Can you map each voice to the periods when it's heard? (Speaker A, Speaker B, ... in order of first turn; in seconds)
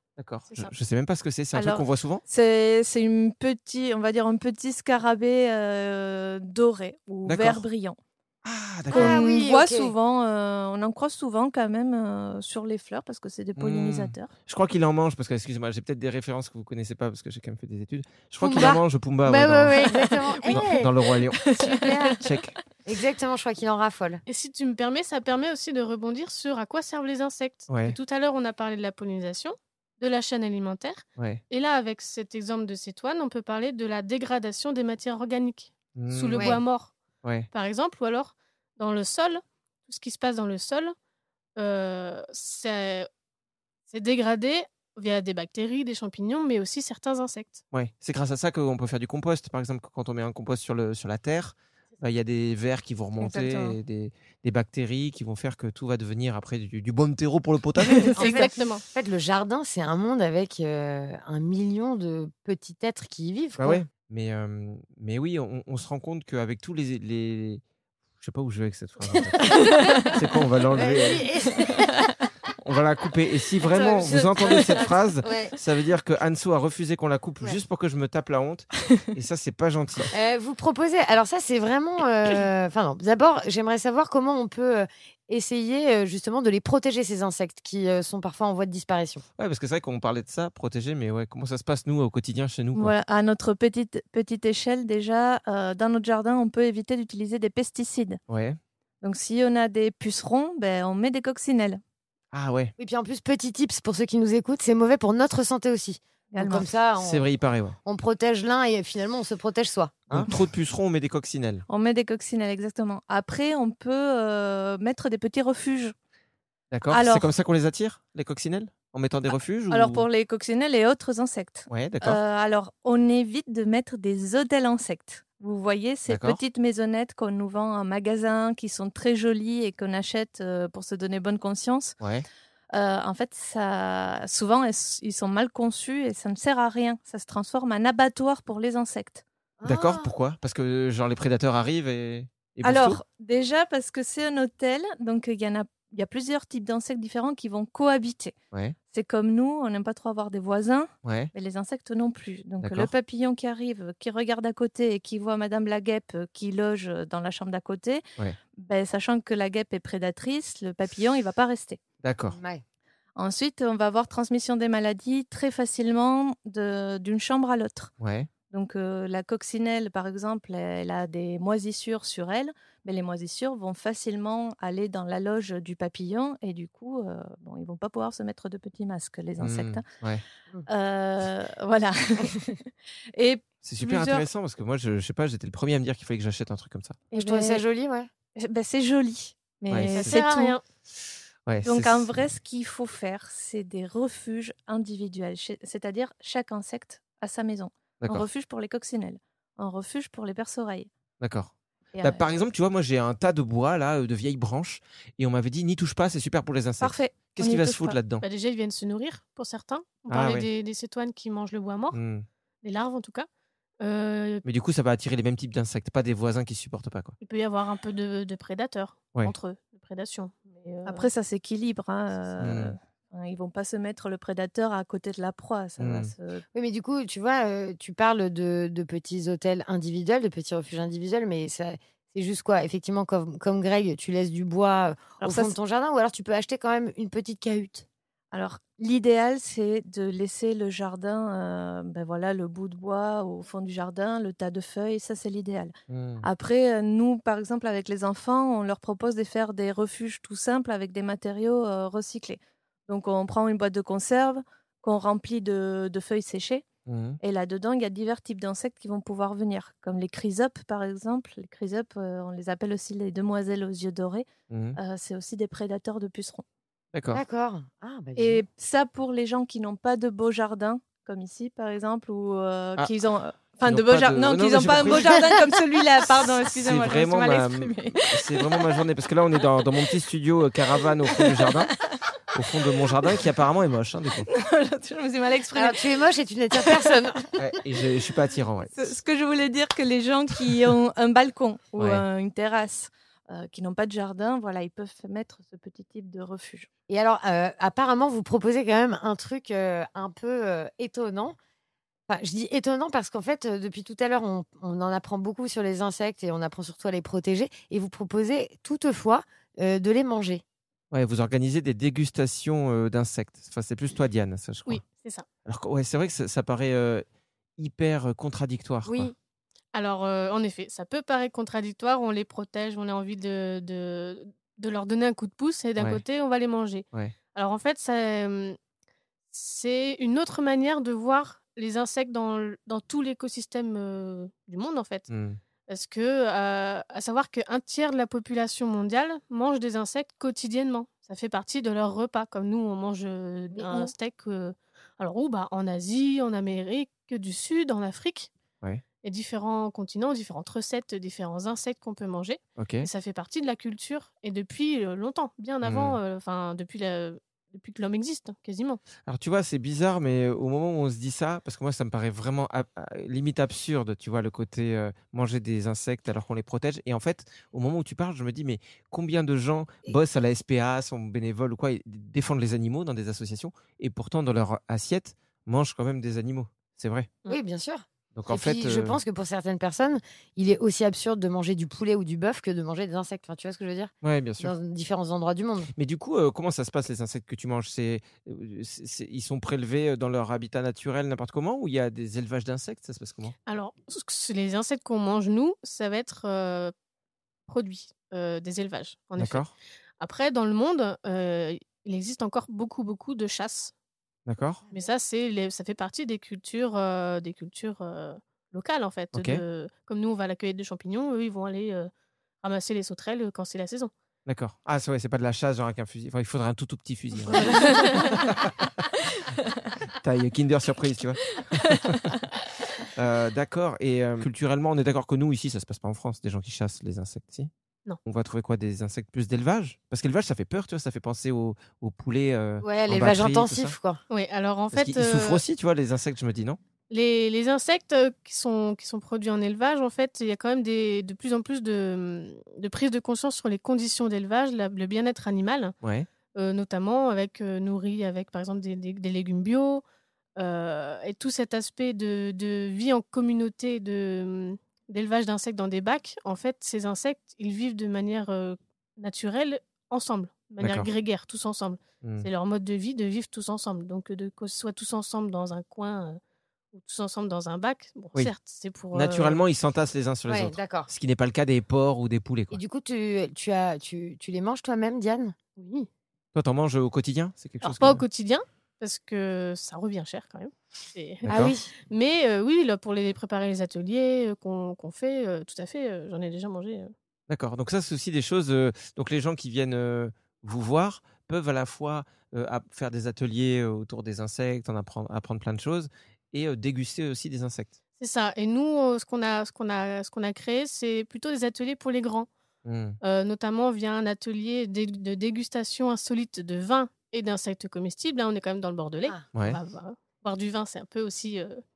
Speaker A: 0.2-2.2, 7.2-7.6, 8.4-9.2, 13.6-21.5, 22.2-22.6, 27.7-27.9, 36.0-36.6, 47.7-58.2, 63.6-67.6, 68.2-71.3, 72.6-80.1, 89.4-92.9, 98.3-98.6, 102.3-102.7, 107.0-107.8, 110.1-111.6, 116.7-120.0, 121.7-122.2, 126.1-126.4, 132.0-132.2, 139.6-143.0, 151.0-151.3, 152.6-152.9, 162.0-162.4, 168.0-168.3, 179.4-180.2, 183.6-187.1, 189.7-190.2, 191.4-192.1, 201.2-201.5, 202.0-208.2, 210.1-210.5, 211.9-212.2, 214.4-217.1, 222.4-222.7, 225.8-226.1, 245.9-246.2, 256.9-257.2, 264.5-264.8, 266.9-267.2, 273.6-275.2, 276.4-281.7, 282.3-284.3, 287.4-288.8, 291.8-292.0, 310.9-314.8, 315.4-317.0, 317.6-319.1, 335.1-335.4, 352.6-352.9, 355.6-356.0, 359.1-377.1, 378.1-379.0, 384.0-384.5, 385.7-393.3, 399.2-399.5, 404.3-404.6, 409.1-409.4, 414.2-418.7, 420.0-422.1, 422.9-427.5, 428.0-433.8, 434.7-436.6, 445.8-446.1, 460.6-460.9, 462.0-462.3, 468.9-472.6, 476.3-478.0, 481.2-481.5, 487.3-497.7, 502.6-503.0
Speaker B: 1.5-8.0, 8.9-14.3, 20.0-20.7, 21.4-22.2, 53.2-53.8, 58.1-58.5, 69.6-70.1, 74.4-74.8, 92.7-98.2, 99.0-101.8, 106.3-106.7, 111.7-115.9, 116.9-117.3, 119.7-132.0, 132.7-139.2, 142.6-148.3, 148.9-158.0, 158.6-161.8, 163.2-167.9, 168.5-179.8, 180.7-182.6, 183.1-184.2, 187.1-187.6, 188.3-190.6, 191.6-200.9, 201.9-202.3, 206.8-208.0, 220.8-226.4, 235.2-235.5, 238.3-256.6, 257.2-266.4, 268.1-278.5, 284.3-285.8, 286.5-286.9, 288.7-296.7
Speaker C: 8.9-9.9, 18.4-20.9, 21.4-22.2, 22.9-24.2, 36.3-36.6, 58.2-63.8, 69.7-70.1, 70.7-72.0, 73.7-75.5, 80.1-89.2, 102.8-107.3, 107.8-110.3, 139.6-140.1, 162.3-162.6, 187.1-188.1, 226.5-237.8, 267.1-268.4, 285.5-287.3, 296.9-301.4, 302.1-310.4, 318.9-319.1, 343.5-343.9, 377.3-385.7, 432.6-434.0, 470.3-470.9, 472.5-475.3, 481.3-481.7
Speaker D: 24.2-36.9, 37.5-40.9, 41.6-43.1, 43.9-47.6, 58.2-58.8, 189.9-190.6, 208.2-212.0, 212.6-213.3, 213.8-214.4, 217.2-221.1, 314.7-315.2, 319.7-328.6, 329.3-335.1, 335.7-348.3, 349.0-358.8, 393.5-396.7, 397.5-399.4, 400.0-403.7, 404.7-411.9, 412.4-413.9, 417.4-418.0, 434.1-435.4, 436.9-445.7, 446.3-449.8, 450.4-466.2, 466.7-469.4, 475.6-475.9, 477.6-481.2, 481.9-486.9, 498.0-502.3, 503.0-511.6